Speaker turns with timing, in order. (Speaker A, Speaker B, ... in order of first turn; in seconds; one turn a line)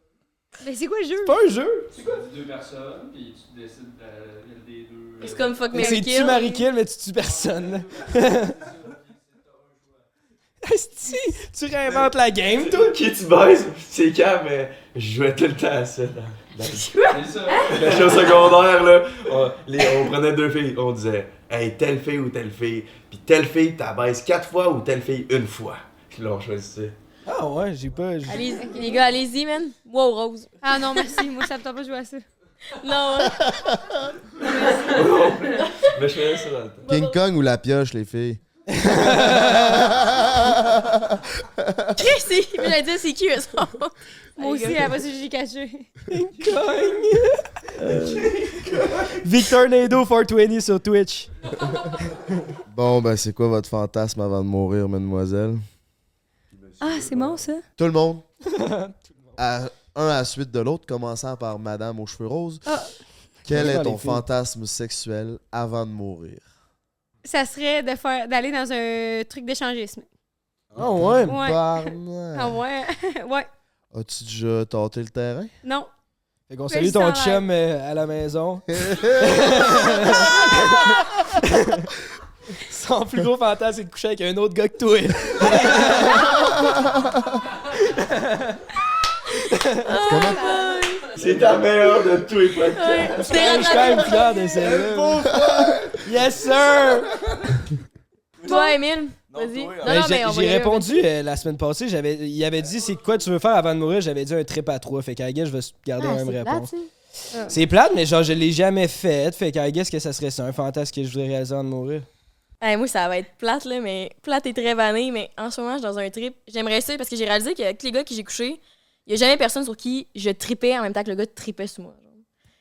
Speaker A: 0.6-1.4
Speaker B: 1.2-2.1
Speaker C: 1.9-5.8
Speaker D: 5.2-6.6
Speaker B: 5.7-8.6
Speaker C: 7.2-10.1
Speaker B: 10.6-12.9
Speaker E: 11.9-26.9
Speaker D: 16.6-17.7
Speaker C: 17.0-18.4
Speaker B: 27.2-28.5
Speaker D: 28.3-30.6
Speaker A: 28.3-29.0
Speaker A: 30.6-32.2
Speaker D: 32.7-34.1
Speaker E: 34.4-36.9
Speaker D: 35.6-35.9
Speaker F: 36.9-42.0
Speaker D: 36.9-37.1
Speaker B: 38.7-40.0
Speaker D: 42.0-44.9
Speaker A: 44.4-45.9
Speaker B: 46.1-48.2
Speaker E: 47.8-49.1
Speaker B: 49.2-51.3
Speaker F: 52.7-55.6
Speaker E: 56.5-57.5
Speaker A: 56.8-57.6
Speaker F: 57.8-58.2
Speaker B: 58.5-58.9
Speaker F: 59.4-62.6
Speaker A: 62.6-63.0
Speaker F: 63.4-66.4
Speaker B: 63.5-64.2
Speaker A: 67.2-70.1
Speaker E: 70.7-71.1
Speaker B: 70.8-71.4
Speaker F: 70.8-72.6
Speaker A: 71.2-73.5
Speaker F: 73.9-75.5
Speaker A: 75.6-75.9
Speaker B: 76.5-81.8
Speaker A: 76.7-77.5
Speaker F: 78.7-80.4
Speaker B: 82.6-86.6
Speaker B: 87.8-88.6
Speaker B: 89.5-89.9
Speaker D: 89.8-91.1
Speaker F: 90.0-90.4
Speaker A: 90.1-90.9
Speaker E: 91.1-97.6
Speaker D: 92.6-94.6
Speaker B: 93.2-95.3
Speaker B: 96.0-97.1
Speaker E: 98.4-98.8
Speaker D: 98.4-100.9
Speaker A: 98.5-98.7
Speaker E: 99.3-100.1
Speaker B: 99.8-106.7
Speaker D: 106.0-106.9
Speaker B: 107.5-112.1
Speaker D: 112.6-122.2